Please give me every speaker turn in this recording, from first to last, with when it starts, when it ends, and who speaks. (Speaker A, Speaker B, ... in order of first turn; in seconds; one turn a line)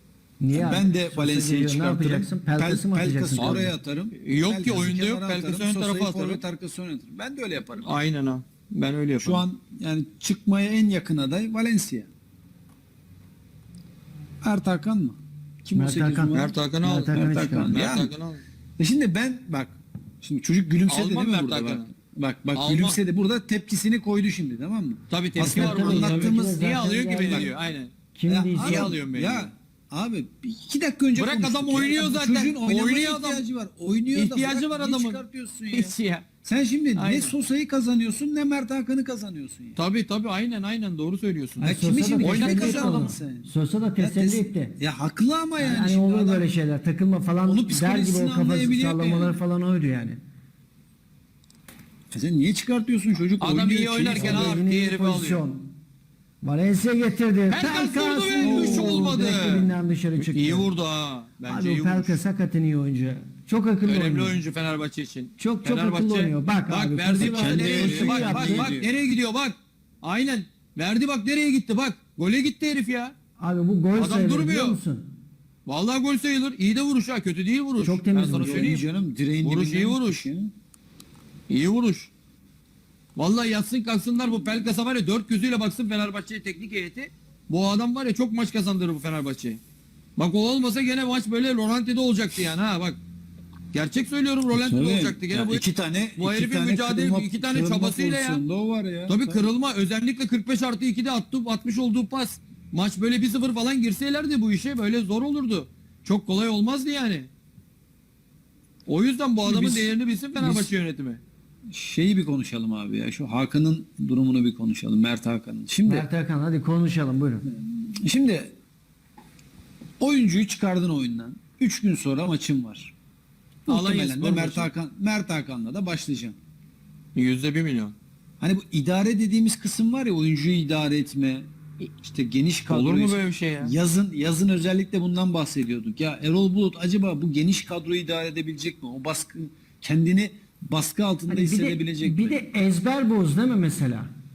Speaker A: 0.4-3.8
Speaker B: 0.5-7.9
Speaker C: 3.4-6.4
Speaker C: 7.8-9.4
Speaker B: 9.2-12.1
Speaker B: 14.4-16.5
Speaker A: 15.8-17.8
Speaker C: 16.3-18.4
Speaker B: 17.1-18.1
Speaker B: 18.8-26.6
Speaker C: 20.9-21.9
Speaker C: 22.6-23.0
Speaker C: 25.1-27.9
Speaker A: 25.4-27.5
Speaker A: 28.1-29.0
Speaker B: 28.3-39.8
Speaker C: 28.6-29.5
Speaker C: 31.1-33.4
Speaker C: 34.1-36.3
Speaker C: 37.0-37.4
Speaker C: 39.8-41.6
Speaker A: 41.6-44.8
Speaker B: 41.6-46.5
Speaker C: 42.2-43.1
Speaker A: 45.6-50.2
Speaker B: 47.4-49.4
Speaker B: 52.1-54.5
Speaker C: 53.4-55.4
Speaker A: 54.1-55.7
Speaker A: 56.4-60.7
Speaker C: 57.5-62.2
Speaker B: 58.4-59.0
Speaker A: 61.5-64.4
Speaker C: 63.9-73.1
Speaker A: 65.4-68.7
Speaker B: 67.2-68.9
Speaker A: 73.4-75.1
Speaker C: 74.0-74.8
Speaker C: 75.7-78.8
Speaker A: 77.8-78.8
Speaker B: 78.3-80.5
Speaker C: 79.4-80.3
Speaker C: 81.5-82.1
Speaker C: 83.2-89.6
Speaker C: 90.2-93.0
Speaker C: 93.7-95.6
Speaker B: 94.5-99.5
Speaker C: 96.2-98.4
Speaker C: 99.1-107.3
Speaker C: 108.9-111.2
Speaker B: 109.4-110.7
Speaker B: 111.7-116.1
Speaker A: 115.8-117.5
Speaker B: 117.5-118.5
Speaker B: 120.0-122.9
Speaker B: 123.7-126.4
Speaker C: 123.7-124.7
Speaker C: 127.2-128.0
Speaker B: 128.4-142.4
Speaker C: 132.7-133.8
Speaker A: 141.3-144.1